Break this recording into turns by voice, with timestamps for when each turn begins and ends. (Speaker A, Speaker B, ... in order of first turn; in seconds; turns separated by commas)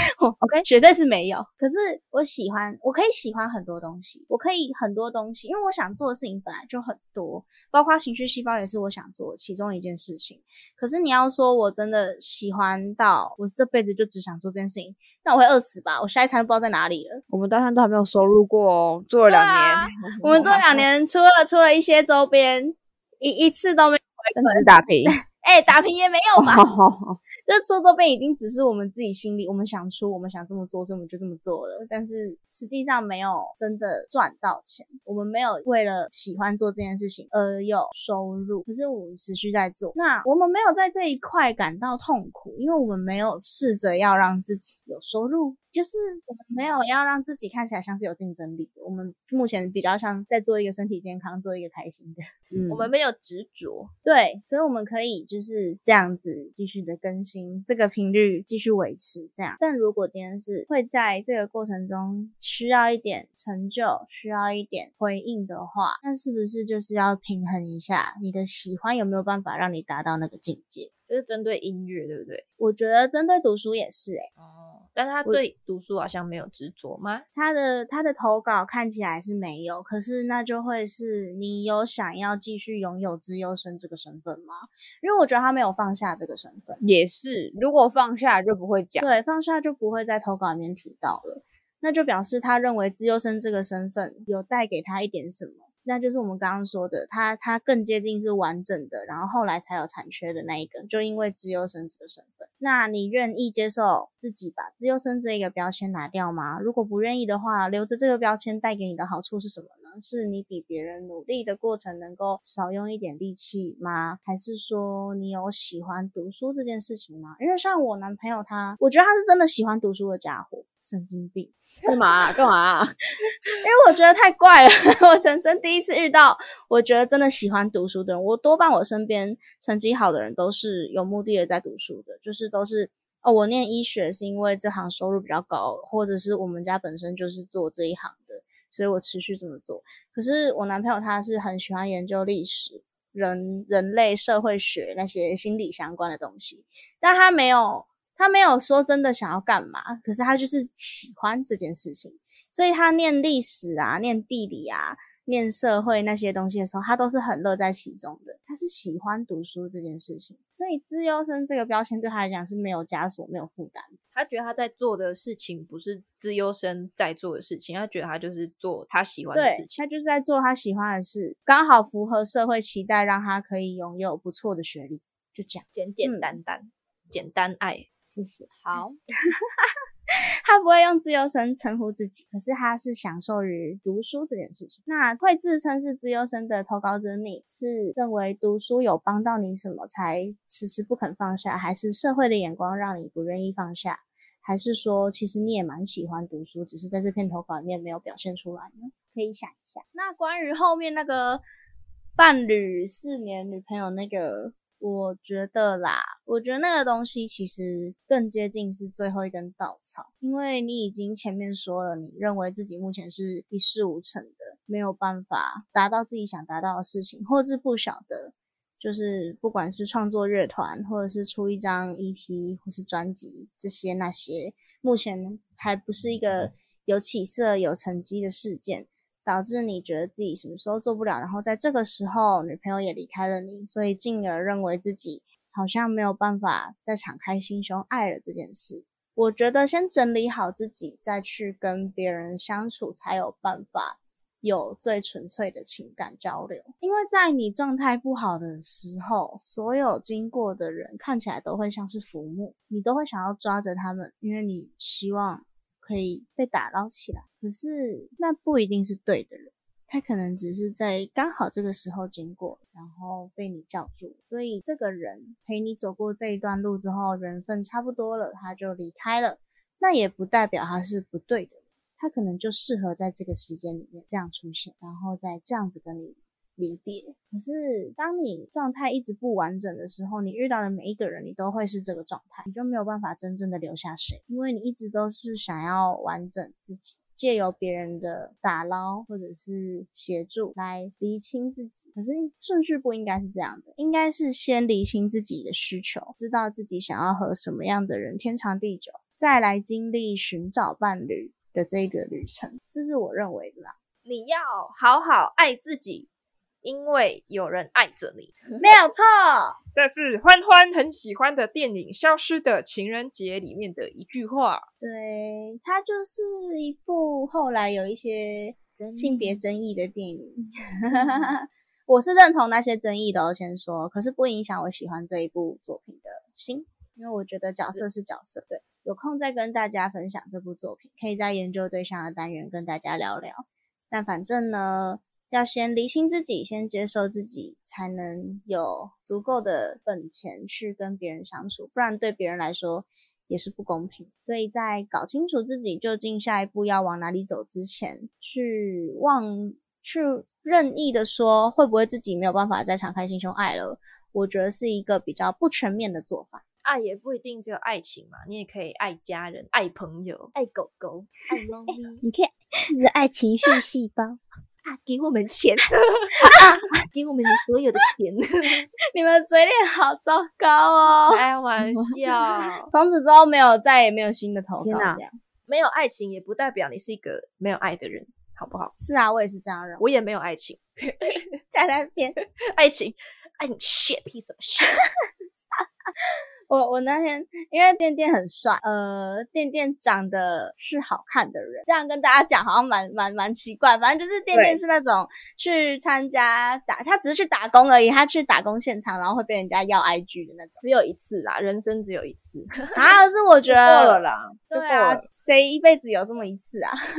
Speaker A: 0.2-17.2, Speaker B: 0.4-0.7, Speaker B: 17.3-20.9, Speaker A: 19.3-26.6, Speaker B: 24.4-25.2, Speaker B: 26.4-27.2, Speaker A: 27.5-52.2, Speaker B: 52.5-52.9, Speaker C: 52.7-53.9, Speaker A: 54.0-70.9, Speaker C: 71.1-72.5, Speaker A: 72.6-74.3, Speaker C: 74.4-77.2, Speaker A: 77.3-86.8, Speaker B: 86.8-89.2, Speaker A: 89.0-121.5, Speaker B: 121.9-122.9, Speaker A: 123.6-164.0, Speaker C: 164.1-169.8, Speaker A: 169.3-176.4, Speaker C: 175.7-177.9, Speaker A: 178.1-178.5, Speaker B: 178.5-178.9, Speaker A: 180.5-201.4, Speaker A: 202.2-303.8, Speaker C: 304.1-306.1, Speaker C: 306.6-308.6, Speaker A: 308.6-309.6, Speaker C: 309.8-314.7, Speaker A: 314.8-356.4, Speaker C: 318.8-319.4, Speaker C: 320.9-321.2, Speaker C: 356.6-362.0, Speaker A: 362.0-364.2, Speaker C: 364.6-368.7, Speaker A: 366.2-366.7, Speaker A: 368.9-371.9, Speaker C: 371.1-372.7, Speaker A: 372.6-375.2, Speaker B: 374.6-375.0, Speaker C: 375.5-378.7, Speaker A: 378.8-379.8, Speaker C: 379.8-381.3, Speaker A: 381.0-382.2, Speaker C: 382.4-384.8, Speaker A: 386.5-400.6, Speaker C: 400.6-402.9, Speaker A: 402.8-406.8, Speaker C: 403.5-405.0